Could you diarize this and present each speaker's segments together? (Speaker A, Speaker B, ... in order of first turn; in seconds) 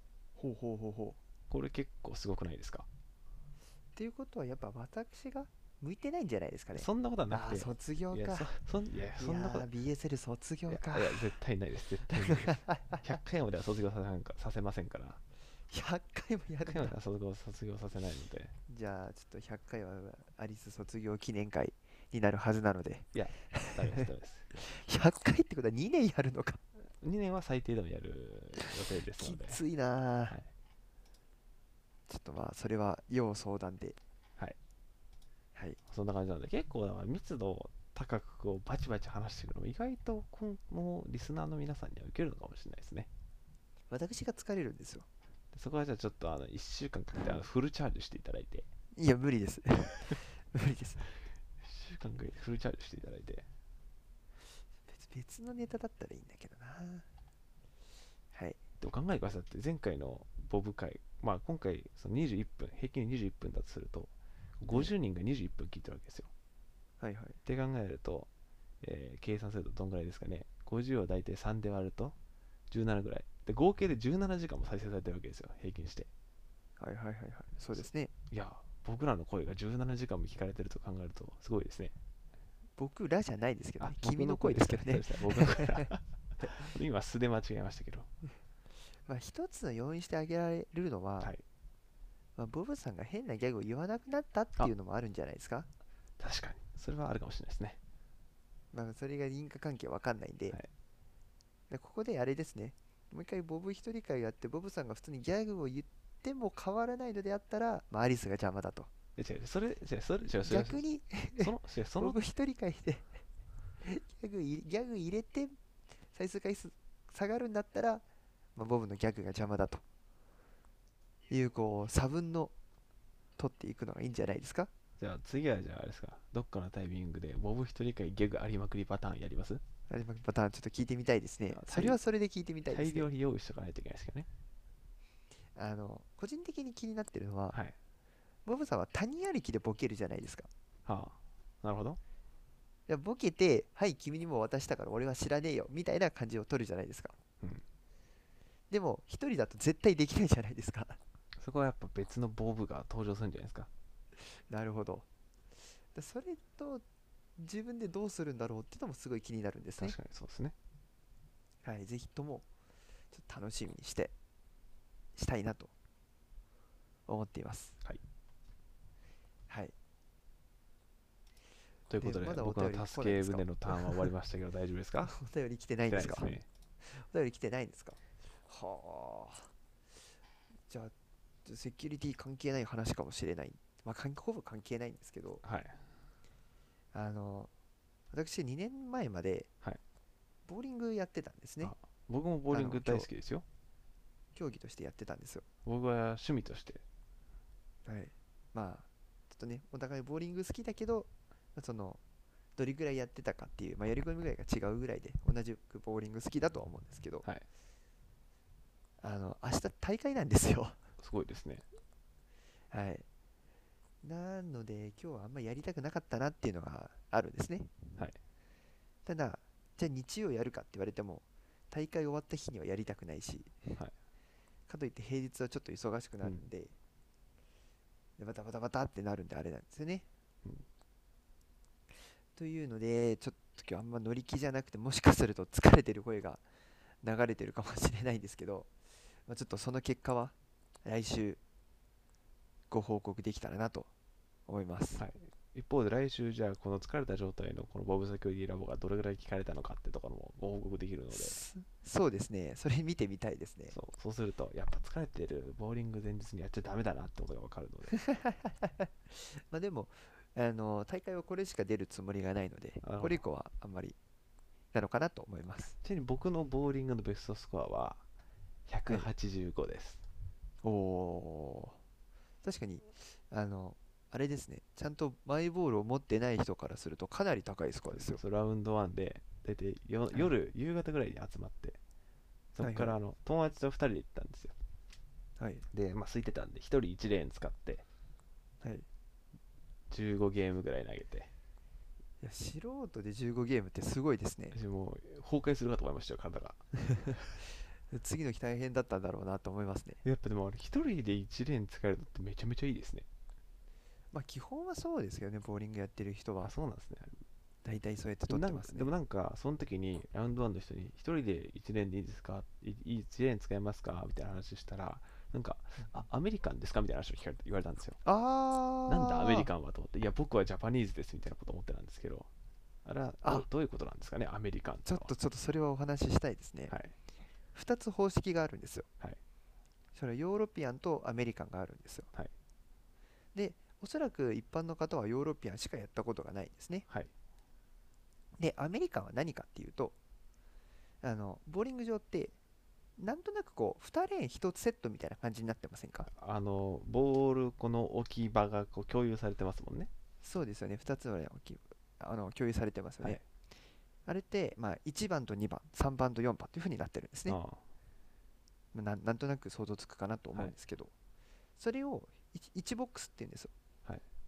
Speaker A: 0.4-1.2, 3.9-8.5, 9.2-11.3, 12.1-13.2, 15.7-16.9, 18.7-26.6, 29.1-30.4, 32.1-34.0, 43.9-45.0, 48.9-51.0, 54.9-57.0, 58.3-58.6, 67.0-67.4, 76.8-78.1, 82.8-85.9, 88.9-91.3, 92.3-95.7, 98.7-100.6, 101.7-108.9, 110.5-113.2, 113.8-115.6, 116.1-118.0, 118.5-119.8, 121.3-122.5, 123.4-124.7, 129.9-133.1, 135.5-137.6, 138.4-140.5, 142.9-147.2, 148.7-151.0, 154.2-155.1, 155.9-156.8, 157.4-159.9, 161.6-162.5, 163.1-164.1, 165.1-165.7, 167.1-167.8, 169.5-169.7, 172.0-174.1, 175.0-179.5, 180.7-180.9, 181.4-185.4, 186.9-187.5, 188.1-189.5, 190.4-191.7, 192.5-193.1, 194.3-195.4, 197.8-202.0, 202.6-207.2, 209.0-210.8, 212.7-213.0, 214.0-217.8, 219.1-223.8, 224.7-226.7, 228.2-230.1, 232.3-236.4, 237.0-238.7, 239.2-241.4, 242.7-243.9, 244.5-245.0, 251.1-253.7, 258.0-264.0, 264.7-265.7, 270.6-271.8, 272.4-278.2, 282.6-283.0, 285.4-285.6, 288.6-288.9, 292.2-294.6, 296.9-297.2, 297.9-300.0, 304.1-306.5, 307.6-308.9, 318.0-319.5, 324.9-326.7, 327.5-328.9, 329.9-332.1, 333.3-336.9, 338.4-339.9, 341.0-342.4, 343.0-346.1, 350.2-353.2, 354.1-357.4, 358.7-360.9, 361.6-363.5
Speaker B: 1.5-2.9, 6.7-9.7, 10.7-15.2, 16.6-18.5, 23.1-24.5, 27.0-29.6, 35.9-43.1, 45.5-48.7, 51.6-53.5, 58.8-66.3, 67.4-68.3, 68.8-72.2, 72.7-76.1, 77.7-81.9, 83.8-88.1, 96.2-97.8, 109.2-112.2, 125.0-129.6, 131.5-132.0, 132.7-134.3, 140.8-142.0, 151.4-153.7, 159.8-160.5, 171.9-175.1, 175.9-176.5, 185.4-185.8, 191.6-193.4, 195.6-196.8, 211.0-211.7, 244.9-251.4, 253.7-258.0, 262.8-263.2, 265.8-268.0, 268.7-270.0, 277.9-281.8, 282.5-284.5, 285.7-287.8, 289.9-291.3, 294.5-296.6, 300.0-303.1, 306.4-307.2, 308.3-318.0, 318.9-322.3, 322.8-325.1, 326.7-326.9, 346.1-349.9, 357.3-357.6